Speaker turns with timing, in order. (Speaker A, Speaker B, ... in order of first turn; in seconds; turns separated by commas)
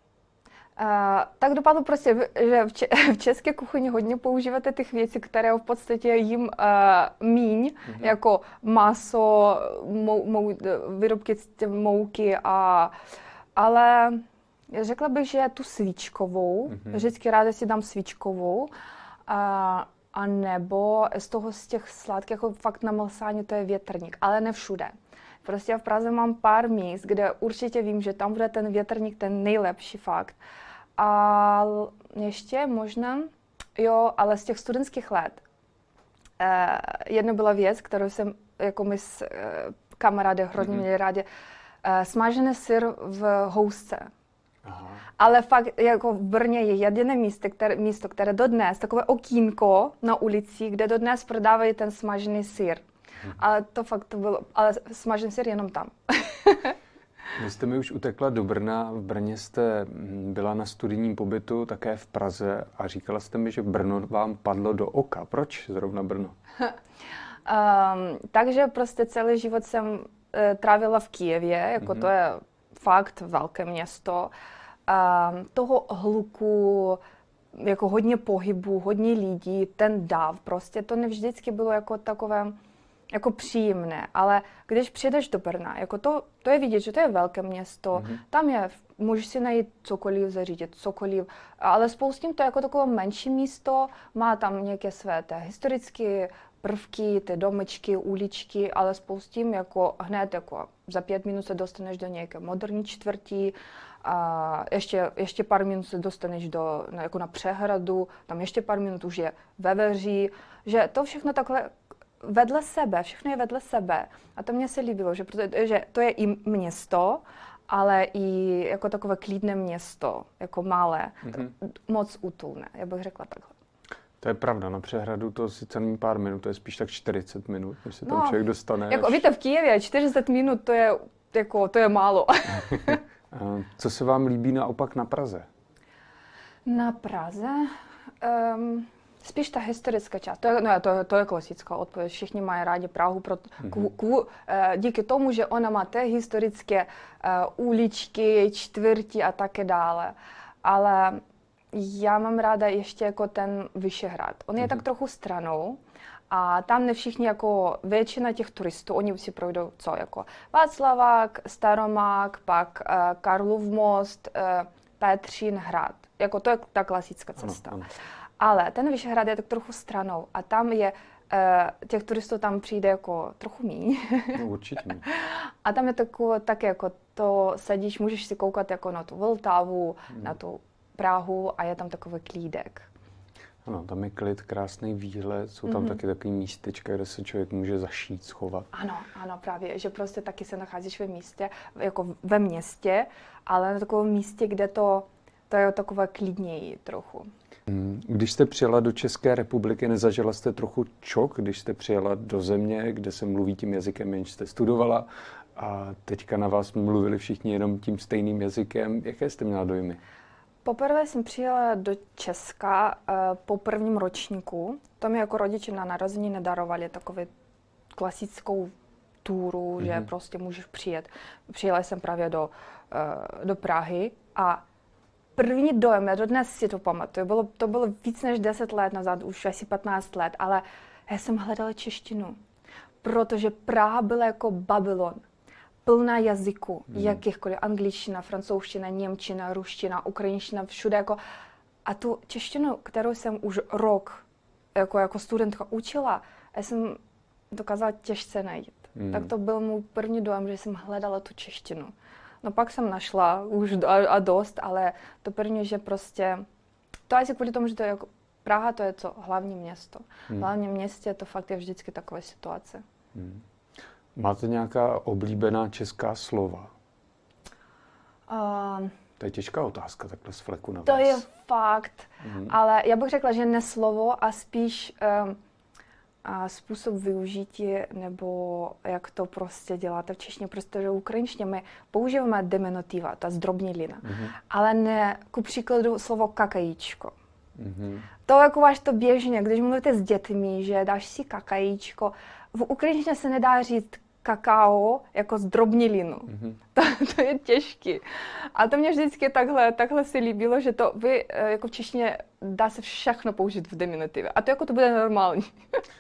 Speaker A: 0.8-12.9, Speaker B: 7.9-8.1, Speaker A: 13.6-18.7, Speaker A: 19.3-30.4, Speaker A: 31.0-35.4, Speaker A: 36.4-41.3, Speaker B: 40.6-40.9, Speaker A: 41.8-44.1, Speaker B: 44.6-45.0, Speaker A: 45.2-52.8, Speaker A: 53.4-56.8, Speaker B: 57.4-66.4, Speaker A: 67.5-74.3, Speaker B: 71.8-72.1, Speaker A: 74.9-77.0, Speaker A: 77.5-82.6, Speaker A: 83.1-123.5, Speaker B: 87.9-88.2, Speaker B: 121.3-121.5, Speaker B: 124.2-129.3, Speaker A: 128.0-133.0, Speaker B: 132.7-135.5, Speaker A: 136.7-151.2, Speaker B: 143.6-143.9, Speaker A: 151.7-167.7, Speaker B: 167.4-167.9, Speaker A: 168.4-174.4, Speaker B: 174.3-175.1, Speaker A: 175.1-182.9, Speaker B: 183.7-188.7, Speaker A: 185.7-186.0, Speaker A: 188.7-197.3, Speaker B: 197.7-210.0, Speaker A: 210.6-217.3, Speaker A: 217.9-224.7, Speaker B: 219.8-220.1, Speaker A: 225.4-232.4, Speaker A: 233.0-235.2, Speaker A: 235.8-241.2, Speaker B: 236.9-237.2, Speaker A: 241.8-244.2, Speaker A: 244.8-247.0, Speaker A: 247.5-256.5, Speaker B: 249.0-249.3, Speaker A: 257.1-262.8, Speaker B: 263.1-263.4, Speaker B: 264.2-266.7, Speaker A: 268.3-268.9, Speaker B: 269.2-271.2, Speaker A: 270.9-275.4, Speaker B: 272.2-272.5, Speaker A: 276.2-287.1, Speaker B: 284.0-284.4, Speaker B: 287.6-288.1, Speaker A: 288.3-305.8, Speaker B: 296.3-296.6